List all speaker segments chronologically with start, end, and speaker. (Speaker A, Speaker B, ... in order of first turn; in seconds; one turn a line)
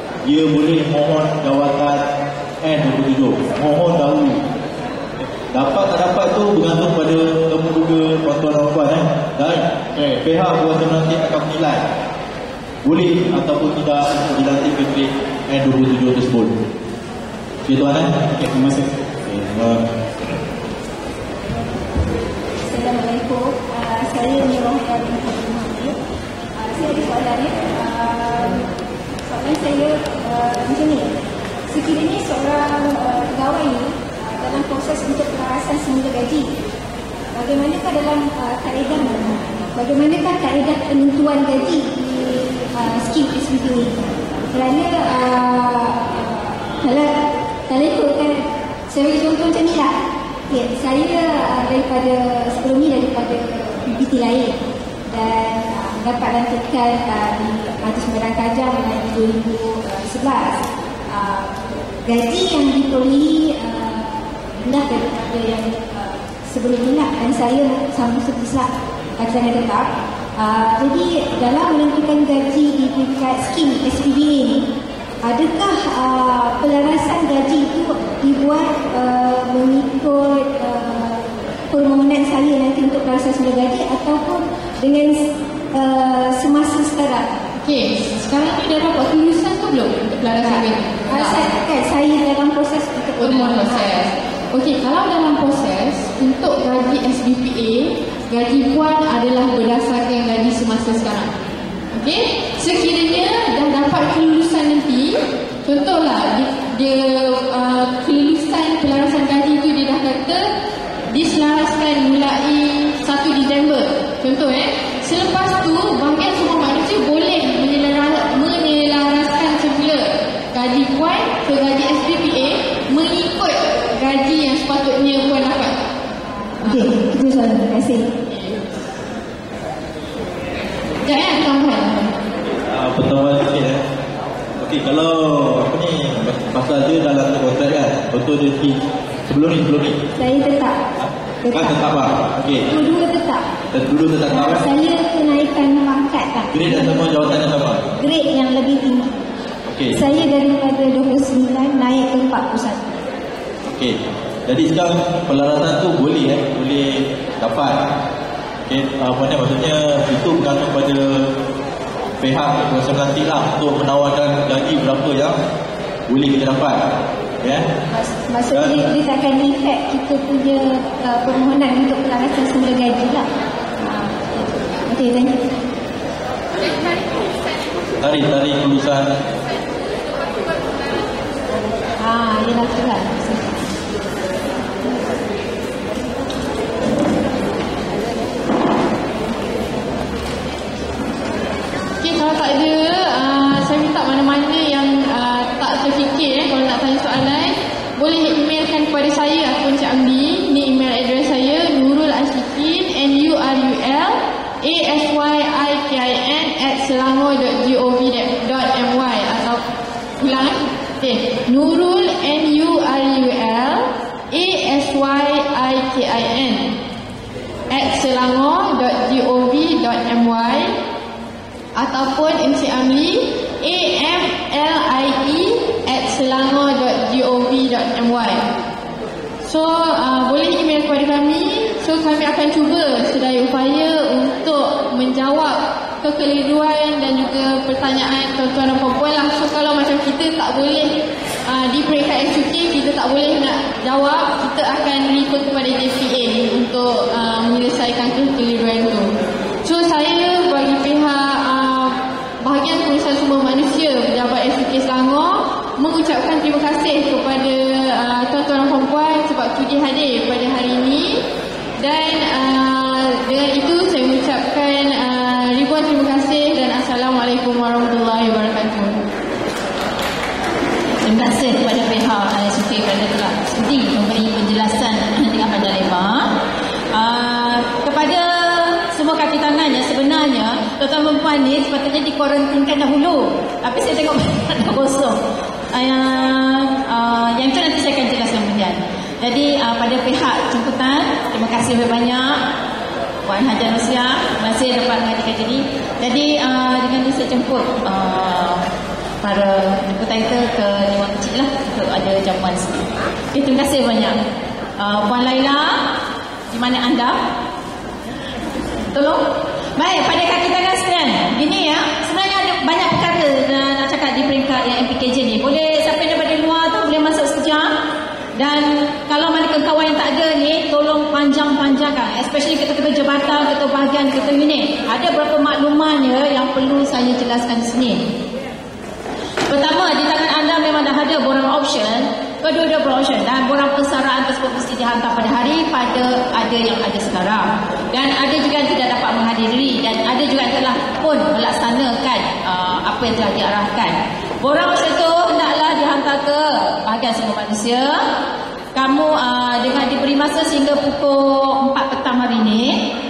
Speaker A: 0.2-2.1
Speaker A: 2.6-4.4
Speaker A: 5.5-11.8
Speaker A: 12.8-16.5
Speaker A: 17.6-19.8
Speaker B: 22.7-25.9
Speaker B: 26.6-28.7
Speaker B: 29.3-31.1
Speaker B: 31.7-36.5
Speaker B: 37.3-47.1
Speaker B: 47.7-49.9
Speaker B: 50.5-54.6
Speaker B: 55.1-61.5
Speaker B: 62.0-74.7
Speaker B: 75.2-87.3
Speaker C: 87.6-91.4
Speaker B: 90.4-94.0
Speaker C: 93.2-101.3
Speaker C: 101.9-110.5
Speaker C: 111.1-125.9
Speaker B: 126.6-128.1
Speaker C: 128.3-128.6
Speaker C: 131.0-132.2
Speaker A: 132.7-133.8
Speaker A: 134.6-140.1
Speaker B: 140.2-140.8
Speaker A: 141.0-142.6
Speaker B: 141.4-141.9
Speaker B: 142.7-143.4
Speaker A: 143.7-144.7
Speaker B: 144.3-147.2
Speaker A: 146.5-147.8
Speaker B: 148.0-149.2
Speaker A: 149.7-150.0
Speaker B: 149.9-153.0
Speaker A: 153.7-157.9
Speaker A: 158.7-161.3
Speaker A: 162.2-165.4
Speaker A: 166.1-166.9
Speaker A: 167.4-167.7
Speaker B: 167.9-173.2
Speaker A: 168.5-168.9
Speaker B: 173.8-175.7
Speaker A: 178.0-179.1
Speaker B: 182.0-183.5
Speaker C: 192.0-209.6
Speaker C: 210.2-216.7
Speaker C: 217.7-220.7
Speaker C: 221.7-228.4
Speaker C: 229.4-261.2
Speaker C: 261.8-269.0
Speaker D: 271.0-276.3
Speaker D: 276.9-285.2
Speaker D: 285.7-292.4
Speaker D: 293.2-298.7
Speaker D: 299.2-304.2
Speaker D: 304.8-305.9
Speaker D: 306.5-307.2
Speaker D: 308.9-317.7
Speaker D: 318.4-328.1
Speaker D: 329.5-348.1
Speaker D: 348.7-352.9